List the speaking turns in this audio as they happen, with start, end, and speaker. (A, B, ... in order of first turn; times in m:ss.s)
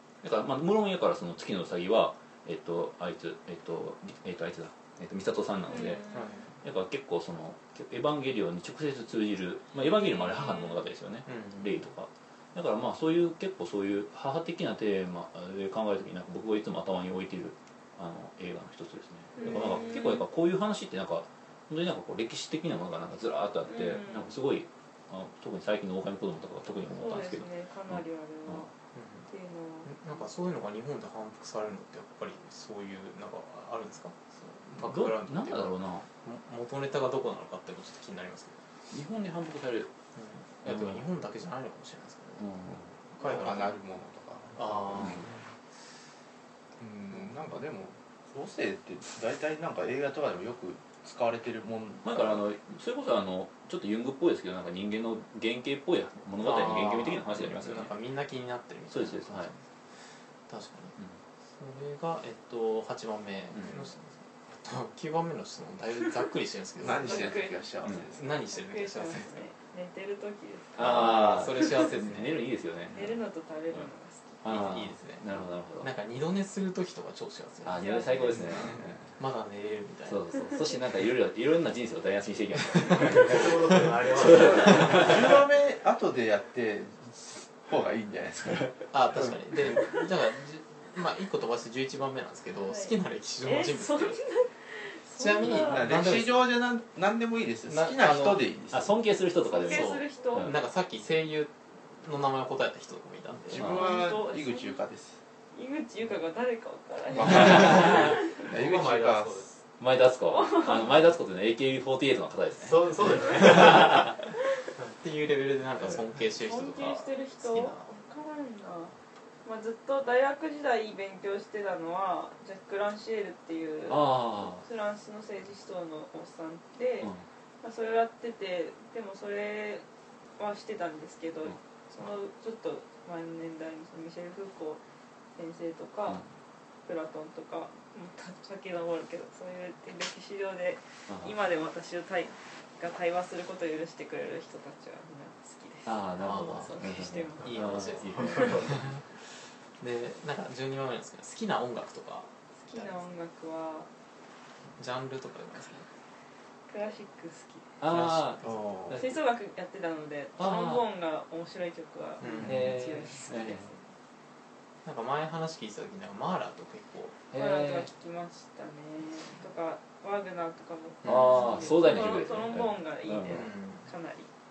0:00.2-0:06.1 A
0:05.7-0:06.4 B
0:06.0-0:06.6 C
0:06.6-0:28.7 A
0:10.0-0:10.8 B
0:11.3-0:11.9 C
0:19.4-0:20.2 B
0:19.4-0:19.8 C
0:23.7-0:24.4 B
0:26.9-0:28.7 B
0:28.9-0:29.3 C
0:29.3-0:30.0 B
0:29.8-0:38.6 C
0:34.8-0:36.1 A
0:38.9-0:39.9 A
0:40.2-0:43.8 C
0:40.7-0:41.0 A
0:42.4-0:42.9 A
0:43.2-0:45.3 D
0:44.5-0:45.4 C
0:46.8-0:52.4 D
0:52.0-0:57.9 A
0:56.4-0:59.7 C
0:58.9-0:59.5 A
1:00.5-1:01.0 C
1:01.6-1:09.5 C
1:03.5-1:03.8 A
1:06.8-1:08.3 D
1:06.9-1:11.8 B
1:10.8-1:13.2 A
1:10.8-1:12.4 C
1:12.9-1:14.4 B
1:14.4-1:15.9 A
1:14.4-1:17.9 C
1:17.6-1:19.1 A
1:17.7-1:18.7 B
1:18.4-1:20.4 C
1:20.1-1:25.4 A
1:23.1-1:25.1 E
1:24.2-1:28.8 D
1:28.9-1:34.2 C
1:32.7-1:35.9 B
1:35.2-1:36.4 C
1:35.4-1:38.9 D
1:37.6-1:38.5 C
1:38.7-1:40.5 A
1:39.4-1:40.5 B
1:39.6-1:43.8 C
1:43.5-1:45.2 D
1:43.6-1:43.9 A
1:43.6-1:44.8 B
1:45.5-1:48.5 B
1:47.1-1:49.5 D
1:47.7-1:47.9 A
1:48.4-1:49.6 E
1:49.8-1:53.2 A
1:50.3-1:51.0 B
1:52.6-1:54.1 E
1:53.4-1:54.1 C
1:54.9-1:57.9 C
1:55.8-2:09.8 B
2:03.9-2:04.6 A
2:10.4-2:14.8 B
2:15.4-2:16.2 B
2:16.8-2:27.6 B
2:21.1-2:21.3 A
2:25.8-2:29.0 A
2:26.2-2:29.2 C
2:29.8-2:33.0 C
2:32.6-2:33.9 B
2:34.8-2:35.9 C
2:36.7-2:37.8 B
2:37.8-2:39.2 A
2:37.8-2:39.0 C
2:38.4-2:39.0 D
2:38.9-2:43.9 B
2:40.4-2:40.8 A
2:42.2-2:42.8 C
2:42.4-2:43.7 A
2:44.8-2:47.3 C
2:47.3-2:47.9 A
2:47.3-2:54.3 B
2:51.0-2:51.7 C
2:51.0-2:53.5 A
2:53.3-2:53.9 C